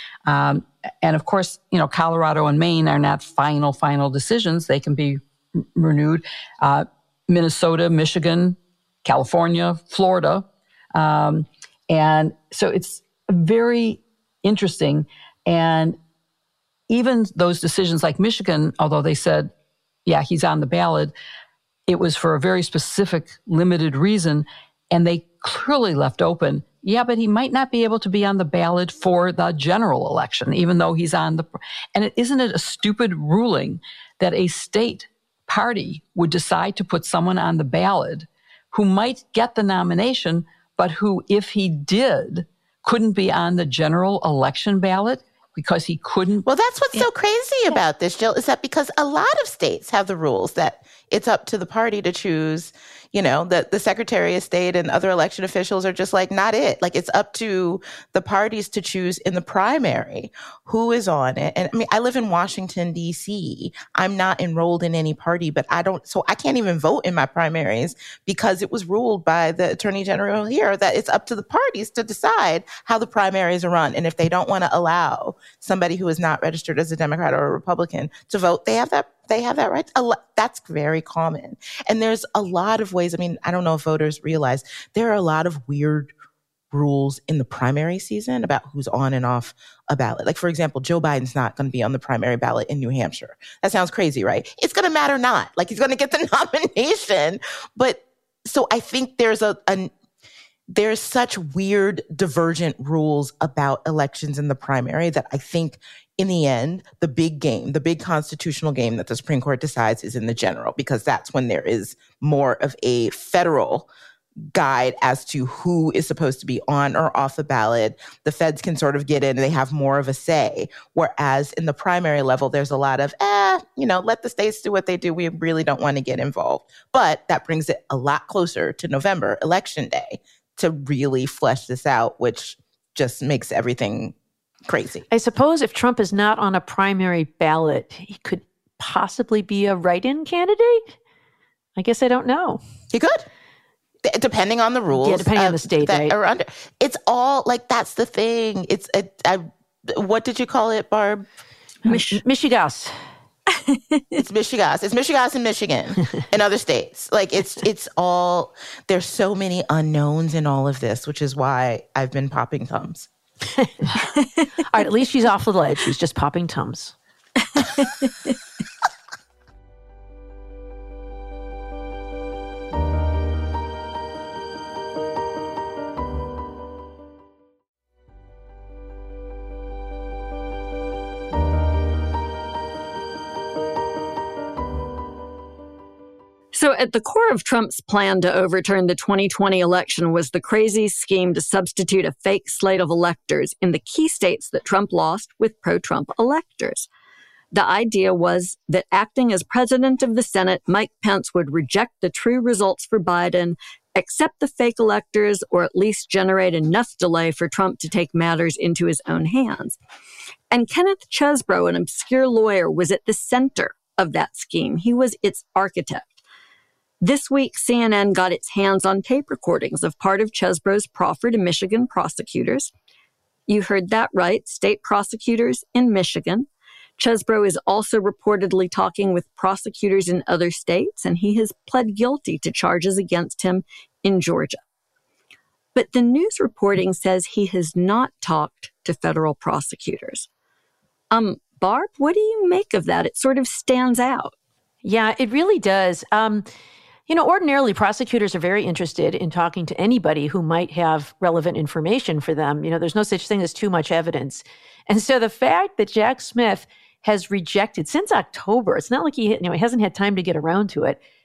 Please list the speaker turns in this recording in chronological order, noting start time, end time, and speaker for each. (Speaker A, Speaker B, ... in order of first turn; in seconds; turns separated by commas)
Speaker A: 0.3-16.0, Speaker A: 16.9-19.5, Speaker A: 20.1-21.1, Speaker A: 21.9-46.5, Speaker B: 46.5-86.1, Speaker B: 86.7-99.9, Speaker B: 100.7-113.9, Speaker B: 114.5-134.1, Speaker B: 134.7-135.1, Speaker C: 135.1-140.9, Speaker C: 141.8-142.6, Speaker B: 142.9-143.3, Speaker B: 144.0-151.3, Speaker C: 144.9-146.1, Speaker D: 151.8-152.2, Speaker C: 151.9-152.9, Speaker D: 153.5-154.0, Speaker B: 154.2-163.1, Speaker C: 164.7-166.9, Speaker D: 167.6-168.1, Speaker D: 186.5-196.9, Speaker D: 197.5-209.8, Speaker D: 210.5-216.2, Speaker D: 217.0-222.7, Speaker D: 223.5-226.5, Speaker D: 227.0-234.6, Speaker D: 235.7-240.2, Speaker D: 241.1-244.3, Speaker C: 244.8-246.4, Speaker C: 247.1-261.0